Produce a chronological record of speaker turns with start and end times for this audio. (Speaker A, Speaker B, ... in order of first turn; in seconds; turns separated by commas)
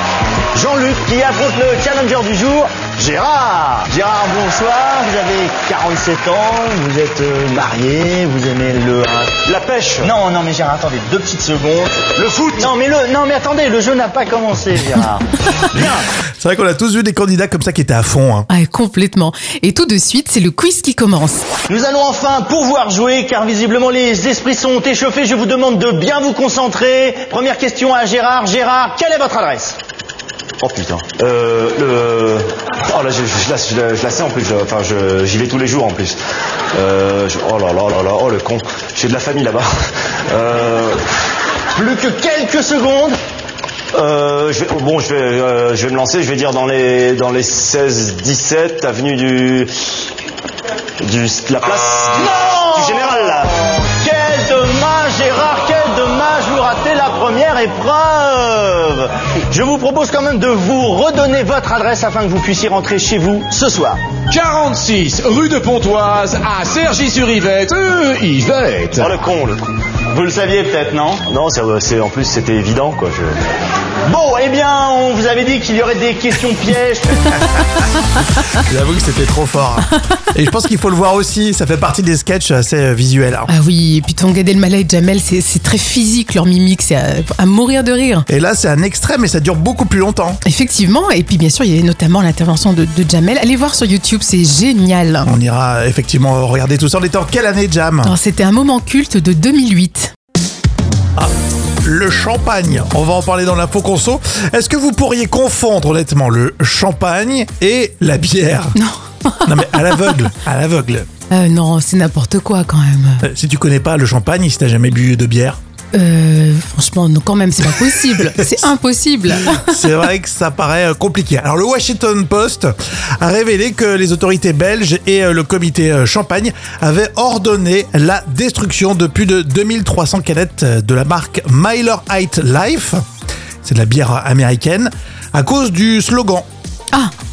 Speaker A: 0.5-16.1, Speaker B: 16.4-18.5, Speaker C: 18.5-21.5, Speaker A: 21.7-29.8, Speaker D: 30.6-36.2, Speaker D: 36.7-39.7, Speaker D: 40.3-41.0, Speaker A: 41.7-43.2, Speaker D: 43.9-49.7, Speaker D: 51.0-53.4, Speaker A: 52.4-64.0, Speaker E: 64.3-69.2, Speaker D: 69.0-69.7, Speaker A: 70.1-71.2, Speaker D: 71.2-73.4, Speaker A: 74.0-77.3, Speaker B: 78.5-83.5, Speaker C: 83.5-88.3, Speaker B: 88.3-90.4, Speaker C: 90.5-95.3, Speaker B: 95.2-98.1, Speaker C: 98.0-100.1, Speaker B: 101.2-108.8, Speaker C: 108.8-110.0, Speaker B: 109.5-111.1, Speaker C: 111.3-113.2, Speaker B: 113.2-115.6, Speaker C: 115.9-119.8, Speaker B: 119.4-133.0, Speaker B: 133.6-136.5